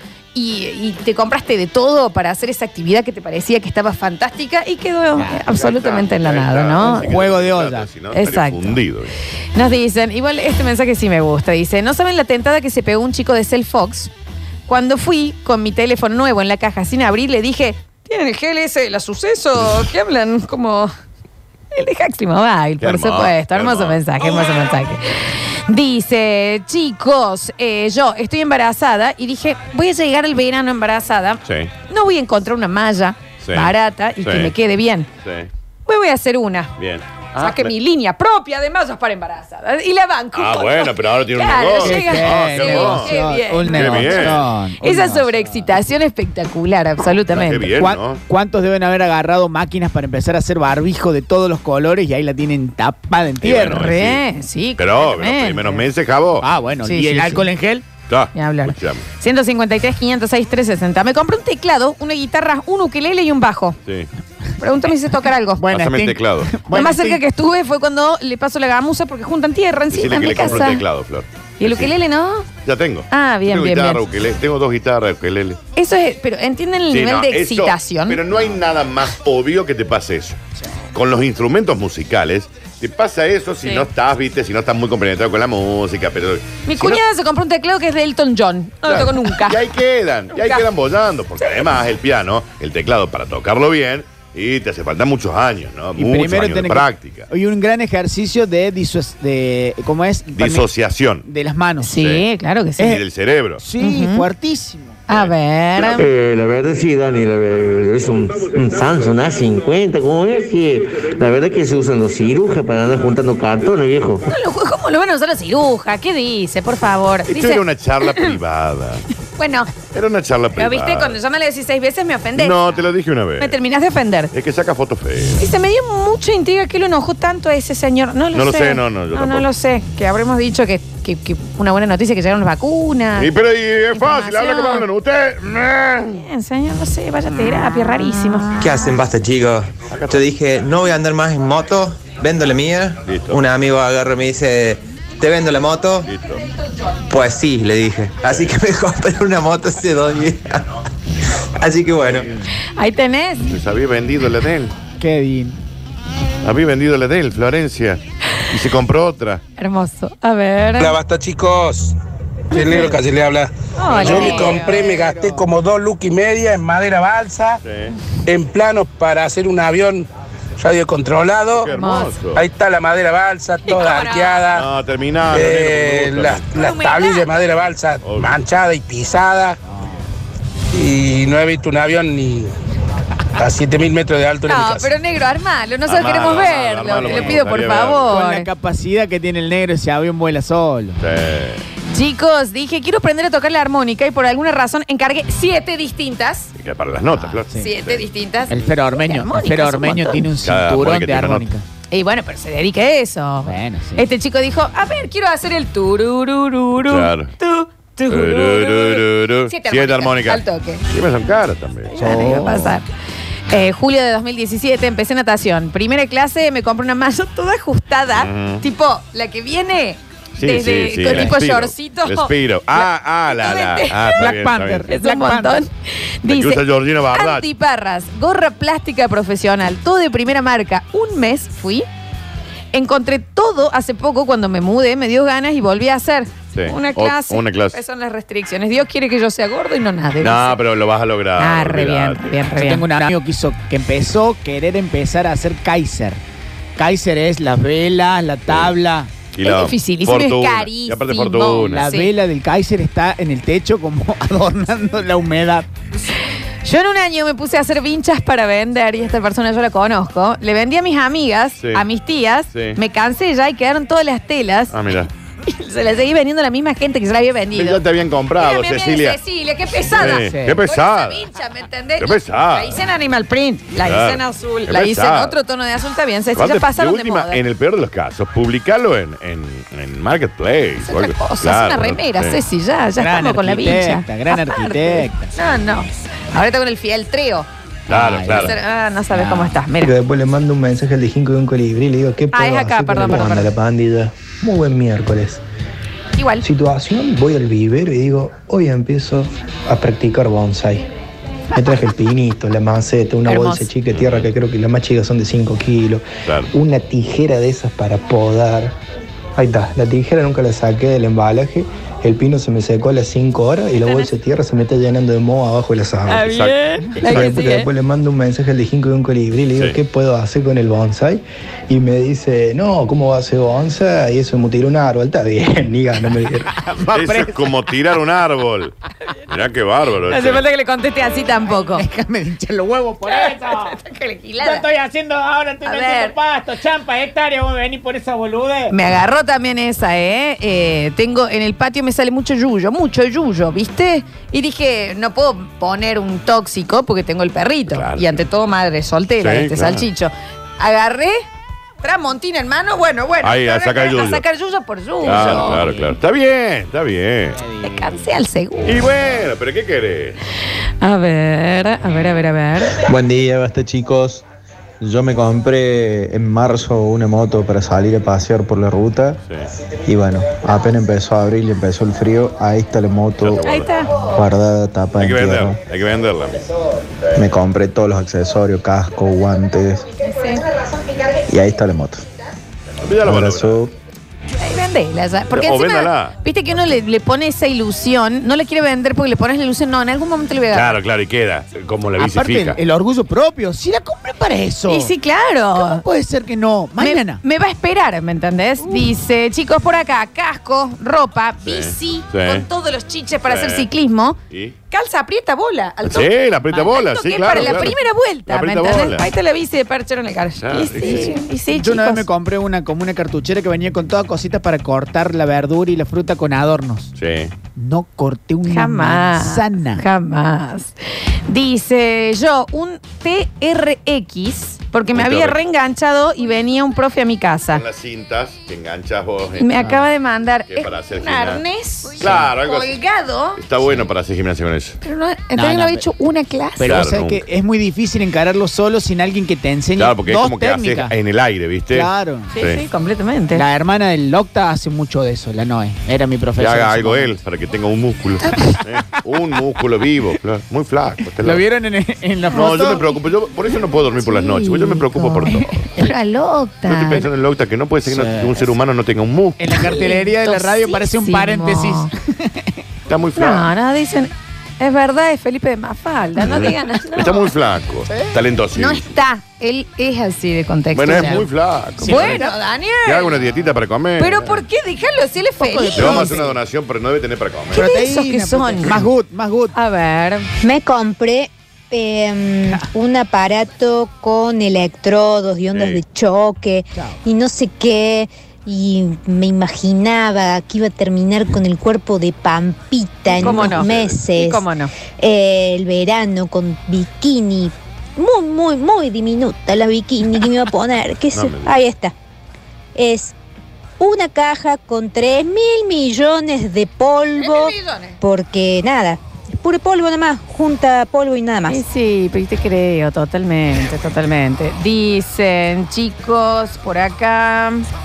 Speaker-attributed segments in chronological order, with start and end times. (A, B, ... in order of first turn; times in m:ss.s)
0:00.3-0:07.1 A
0:05.2-0:05.4 B
0:05.5-0:09.1 C
0:06.8-0:07.9 B
0:08.1-0:08.8 A
0:09.5-0:14.1 A
0:14.7-0:20.9 A
0:21.7-0:35.1 A
0:22.8-0:24.0 C
0:31.4-0:31.7 C
0:33.4-0:34.5 C
0:35.2-0:35.5 C
0:35.9-0:36.7 A
0:36.8-0:37.7 C
0:37.4-0:47.7 A
0:40.3-0:43.2 C
0:41.8-0:45.7 B
0:43.7-0:44.4 C
0:47.3-0:48.2 C
0:47.8-0:54.0 B
0:53.4-0:54.2 C
0:53.6-0:55.9 A
0:54.8-0:56.5 C
0:56.4-0:57.8 B
0:56.8-0:57.5 A
0:58.1-0:59.0 C
0:58.3-1:03.8 A
1:04.6-1:05.7 A
1:05.6-1:07.2 B
1:05.7-1:06.5 C
1:06.7-1:10.8 A
1:09.9-1:12.0 C
1:11.6-1:12.5 A
1:12.6-1:15.6 C
1:13.1-1:14.0 A
1:15.8-1:18.2 A
1:16.9-1:20.4 C
1:20.9-1:27.0 C
1:23.6-1:23.9 A
1:26.6-1:29.6 A
1:28.9-1:37.3 C
1:30.3-1:30.6 A
1:36.0-1:40.7 B
1:40.4-1:41.2 C
1:41.2-1:41.9 B
1:41.8-1:42.9 A
1:42.0-1:42.2 C
1:42.8-1:43.6 C
1:43.6-1:45.0 B
1:43.8-1:44.3 A
1:45.1-1:46.0 A
1:46.0-1:54.2 D
1:54.3-1:58.3 A
1:57.3-1:59.0 C
1:59.4-1:59.7 A
1:59.9-2:01.1 C
2:00.6-2:02.8 A
2:02.4-2:03.6 C
2:03.4-2:04.3 A
2:04.3-2:05.4 C
2:05.4-2:13.3 A
2:08.3-2:09.5 C
2:13.2-2:16.2 C
2:13.9-2:14.9 A
2:16.1-2:18.6 A
2:18.6-2:26.1 E
2:19.9-2:20.3 C
2:23.0-2:23.4 C
2:26.0-2:26.4 C
2:27.1-2:30.6 E
2:28.2-2:28.6 C
2:31.6-2:32.3 E
2:32.8-2:33.6 A
2:33.5-2:34.8 C
2:35.0-2:35.6 B
2:36.4-2:39.4 C
2:39.6-2:41.0 A
2:40.8-2:41.9 F
2:42.5-2:47.6 F
2:43.8-2:44.8 A
2:44.0-2:45.5 B
2:47.6-2:48.0 C
2:48.3-2:50.1 F
2:50.6-2:51.7 F
2:51.5-2:52.5 C
2:51.7-2:52.1 A
2:52.3-2:54.7 F
2:53.6-2:54.5 A
2:54.5-2:56.5 C
2:55.3-2:59.6 F
2:56.6-2:57.4 A
2:58.0-2:58.4 C
2:59.7-3:00.0 B
3:00.7-3:02.5 F
3:03.4-3:04.9 F
3:04.5-3:08.5 A
3:05.9-3:08.1 C
3:07.0-3:07.4 B
3:08.1-3:11.0 B
3:11.0-3:11.6 C
3:11.9-3:16.5 A
3:16.6-3:18.1 C
3:17.1-3:17.7 B
3:17.6-3:20.3 A
3:18.5-3:21.6 B
3:20.4-3:21.5 C
3:21.9-3:30.8 A
3:23.4-3:24.1 B
3:26.9-3:27.3 C
3:28.1-3:32.5 C
3:31.9-3:32.9 A
3:33.5-3:42.3 A
3:38.2-3:38.6 C
3:40.4-3:44.9 C
3:42.8-3:44.2 A
3:44.1-3:45.7 B
3:44.9-3:51.9 A
3:46.3-3:47.5 C
3:52.7-4:00.6 A
3:56.5-3:57.8 C
4:00.2-4:02.3 C
4:01.4-4:02.8 A
4:02.6-4:06.2 B
4:06.8-4:09.1 B
4:08.5-4:08.7 C
4:09.3-4:11.9 C
4:09.4-4:12.1 A
4:11.7-4:15.7 B
4:16.6-4:24.8 A
4:21.6-4:21.8 C
4:22.5-4:22.8 C
4:24.7-4:25.1 C
4:25.5-4:27.8 A
4:27.5-4:29.2 C
4:28.4-4:37.4 A
4:29.9-4:31.2 C
4:30.0-4:30.6 B
4:32.0-4:32.7 C
4:33.8-4:35.4 C
4:36.4-4:42.4 C
4:40.8-4:47.5 A
4:43.0-4:45.3 B
4:47.9-4:48.5 C
4:47.9-4:48.6 B
4:48.3-4:50.0 A
4:49.1-4:49.6 B
4:49.8-4:55.4 G
4:52.3-4:53.5 A
4:56.2-4:56.5 A
4:56.4-5:00.9 G
5:01.5-5:08.7 G
5:03.3-5:03.7 A
5:03.9-5:04.3 C
5:06.2-5:06.5 C
5:09.4-5:16.3 G
5:13.8-5:14.1 A
5:16.1-5:17.7 A
5:16.3-5:17.4 C
5:17.1-5:26.5 G
5:26.4-5:27.6 B
5:26.9-5:28.7 C
5:29.3-5:30.4 C
5:30.1-5:31.9 A
5:31.7-5:33.8 B
5:33.1-5:34.7 A
5:34.4-5:38.7 B
5:35.6-5:36.2 A
5:38.7-5:51.2 A
5:47.7-5:48.2 C
5:49.2-5:49.9 C
5:51.8-5:55.7 A
5:53.2-5:54.2 C
5:55.0-5:56.0 B
5:55.0-5:57.4 C
5:57.4-5:58.0 B
5:57.6-5:58.8 A
5:58.6-6:00.2 C
6:00.8-6:02.8 A
6:02.8-6:04.2 H
6:04.8-6:09.2 H
6:09.9-6:15.6 H
6:13.2-6:13.8 C
6:13.4-6:13.9 A
6:15.0-6:16.4 C
6:17.2-6:19.9 H
6:20.0-6:20.4 A
6:21.3-6:22.0 H
6:22.8-6:23.6 C
6:23.0-6:23.7 H
6:24.4-6:30.8 A
6:25.3-6:26.2 C
6:30.5-6:32.6 C
6:32.0-6:34.9 B
6:34.7-6:35.8 A
6:35.6-6:37.2 B
6:36.8-6:44.2 A
6:38.6-6:38.9 B
6:41.4-6:42.5 C
6:43.2-6:43.7 C
6:44.3-6:44.6 C
6:44.7-6:52.1 A
6:45.8-6:49.1 C
6:47.3-6:47.7 B
6:50.4-6:51.2 C
6:51.5-6:56.9 B
6:57.0-6:57.3 C
6:57.6-6:59.8 B
6:58.5-7:00.7 A
7:01.3-7:07.6 A
7:04.9-7:05.4 C
7:07.5-7:09.8 C
7:09.4-7:13.4 A
7:09.6-7:09.8 B
7:10.5-7:11.4 C
7:12.0-7:12.8 C
7:13.4-7:14.8 C
7:14.8-7:16.8 A
7:15.3-7:15.8 B
7:16.6-7:20.9 B
7:16.6-7:17.2 C
7:19.8-7:22.6 C
7:21.7-7:22.3 B
7:22.3-7:23.4 A
7:23.3-7:27.2 B
7:26.4-7:31.4 C
7:31.2-7:32.9 B
7:32.3-7:35.7 C
7:34.0-7:37.0 A
7:36.7-7:39.4 C
7:37.9-7:38.5 B
7:39.4-7:42.6 B
7:39.6-7:41.9 A
7:42.9-7:43.5 C
7:43.2-7:47.3 A
7:46.2-7:48.9 C
7:47.9-7:48.2 B
7:48.6-7:51.2 A
7:50.7-7:52.2 C
7:51.8-7:52.4 B
7:51.8-7:53.4 A
7:52.8-7:54.4 C
7:54.0-7:56.2 A
7:55.4-7:56.4 B
7:55.8-7:57.7 C
7:57.5-7:58.9 A
7:57.5-7:59.6 B
7:59.5-8:00.3 A
8:00.4-8:14.4 I
8:05.5-8:05.8 C
8:13.1-8:14.0 C
8:13.2-8:14.7 A
8:15.0-8:21.9 I
8:21.1-8:21.6 C
8:22.8-8:23.1 I
8:23.8-8:31.6 I
8:27.2-8:28.0 A
8:31.5-8:37.6 A